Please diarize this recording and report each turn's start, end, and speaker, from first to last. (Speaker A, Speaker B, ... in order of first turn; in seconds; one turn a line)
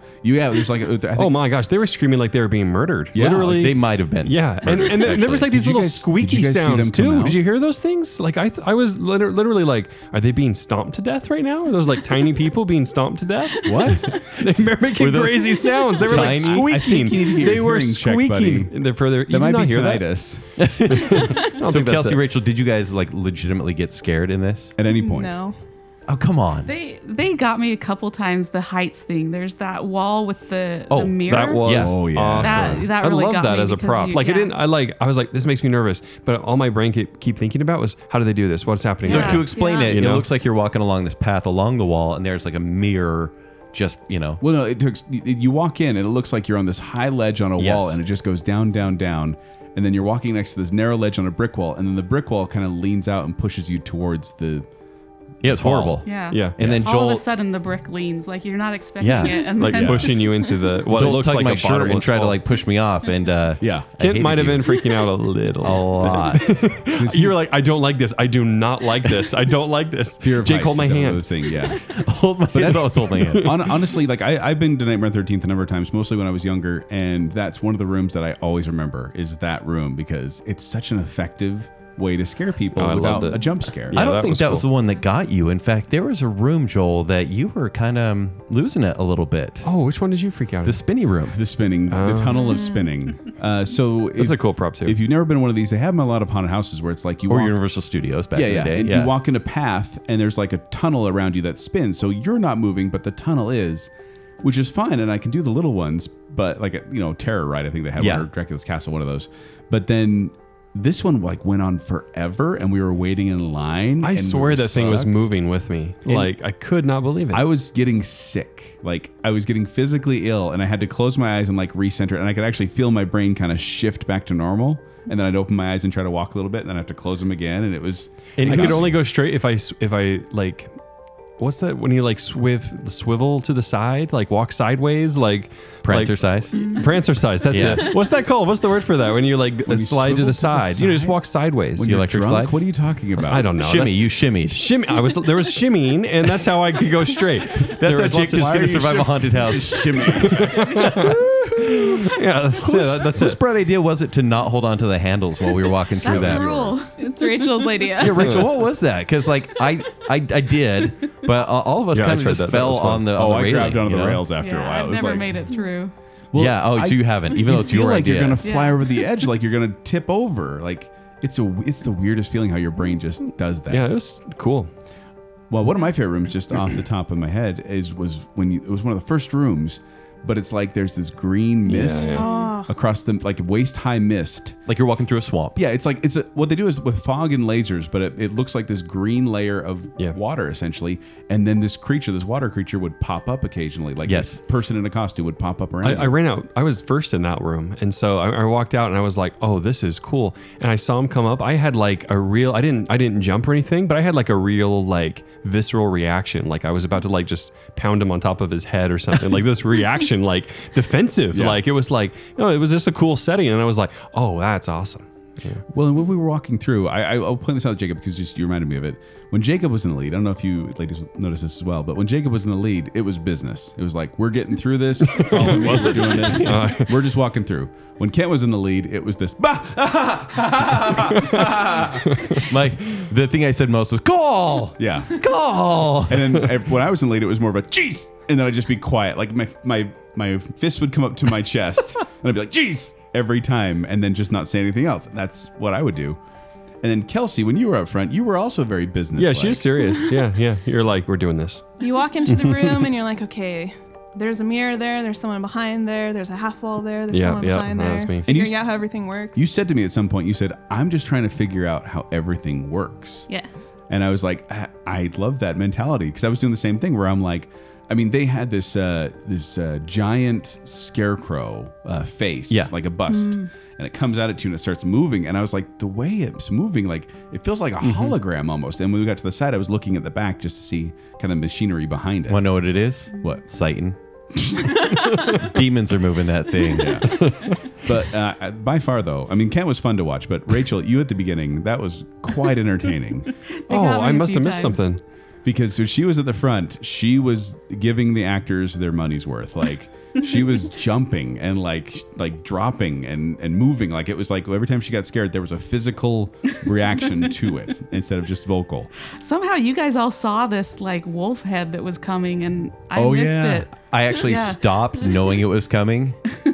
Speaker A: 0.2-1.4
Speaker B: 1.1-20.1
Speaker A: 3.1-3.7
Speaker C: 3.4-5.4
Speaker A: 4.6-7.4
Speaker A: 13.6-14.3
Speaker C: 14.9-16.8
Speaker A: 16.0-20.4
Speaker C: 20.6-24.7
Speaker B: 20.7-22.2
Speaker A: 24.8-25.4
Speaker D: 24.9-25.6
Speaker C: 26.1-26.7
Speaker E: 26.6-34.6
Speaker C: 30.9-31.9
Speaker B: 31.3-40.3
Speaker A: 31.7-32.9
Speaker E: 39.0-39.9
Speaker C: 39.0-44.4
Speaker A: 44.4-54.7
Speaker C: 47.6-48.0
Speaker C: 55.4-57.2
Speaker A: 55.5-55.9
Speaker B: 55.5-56.6
Speaker E: 56.0-60.4
Speaker C: 59.0-59.5
Speaker B: 59.5-62.4
Speaker A: 59.6-60.1
Speaker C: 60.9-64.8
Speaker A: 63.6-63.9
Speaker B: 64.0-71.2
Speaker C: 65.6-66.7
Speaker A: 66.9-67.4
Speaker A: 70.2-71.8
Speaker C: 71.8-73.7
Speaker A: 72.5-84.1
Speaker B: 73.2-73.5
Speaker B: 82.8-84.7
Speaker C: 83.9-89.7
Speaker B: 89.6-90.8
Speaker C: 90.6-91.4
Speaker A: 91.3-97.6
Speaker B: 91.9-92.6
Speaker B: 94.2-95.0
Speaker C: 97.3-99.2
Speaker A: 98.3-103.9
Speaker A: 104.4-115.2
Speaker C: 108.0-108.3
Speaker B: 114.0-117.4
Speaker A: 116.0-116.3
Speaker A: 117.3-129.0
Speaker B: 128.4-130.7
Speaker C: 128.4-128.9
Speaker B: 131.4-142.0
Speaker C: 135.8-136.7
Speaker D: 136.5-137.0
Speaker C: 137.5-137.9
Speaker D: 137.5-137.9
Speaker A: 139.6-143.5
Speaker C: 141.8-142.6
Speaker B: 143.3-149.1
Speaker C: 143.5-144.7
Speaker C: 147.5-150.3
Speaker A: 148.0-151.2
Speaker B: 150.1-153.4
Speaker C: 152.6-156.8
Speaker E: 156.0-158.0
Speaker A: 156.1-156.7
Speaker D: 157.0-158.3
Speaker C: 158.0-164.2
Speaker B: 158.2-158.5
Speaker B: 161.9-163.0
Speaker A: 163.1-165.3
Speaker E: 164.3-165.9
Speaker A: 166.3-173.9
Speaker C: 166.3-168.4
Speaker E: 168.4-168.8
Speaker B: 173.7-174.7
Speaker A: 175.5-184.6
Speaker B: 181.7-182.2
Speaker D: 181.9-182.7
Speaker E: 182.2-182.5
Speaker C: 184.7-185.6
Speaker A: 185.6-196.2
Speaker C: 194.1-194.4
Speaker B: 195.8-215.6
Speaker A: 211.3-211.6
Speaker A: 215.7-232.1
Speaker B: 225.1-227.0
Speaker C: 225.6-226.5
Speaker C: 232.4-236.5
Speaker A: 234.8-235.2
Speaker A: 236.0-246.2
Speaker A: 246.8-249.9
Speaker B: 249.2-251.7
Speaker D: 251.8-259.4
Speaker B: 252.3-252.9
Speaker B: 257.1-258.2
Speaker A: 258.2-258.6
Speaker A: 259.3-263.3
Speaker D: 263.3-263.7
Speaker A: 263.9-282.5
Speaker D: 273.1-273.4
Speaker C: 282.3-283.9
Speaker A: 283.1-283.4
Speaker A: 284.3-285.0
Speaker C: 285.3-287.2
Speaker A: 286.7-293.3
Speaker B: 287.1-287.6
Speaker E: 293.6-294.9
Speaker B: 293.7-295.0
Speaker A: 295.4-308.9
Speaker E: 309.2-315.2
Speaker A: 312.9-313.7
Speaker C: 313.9-316.2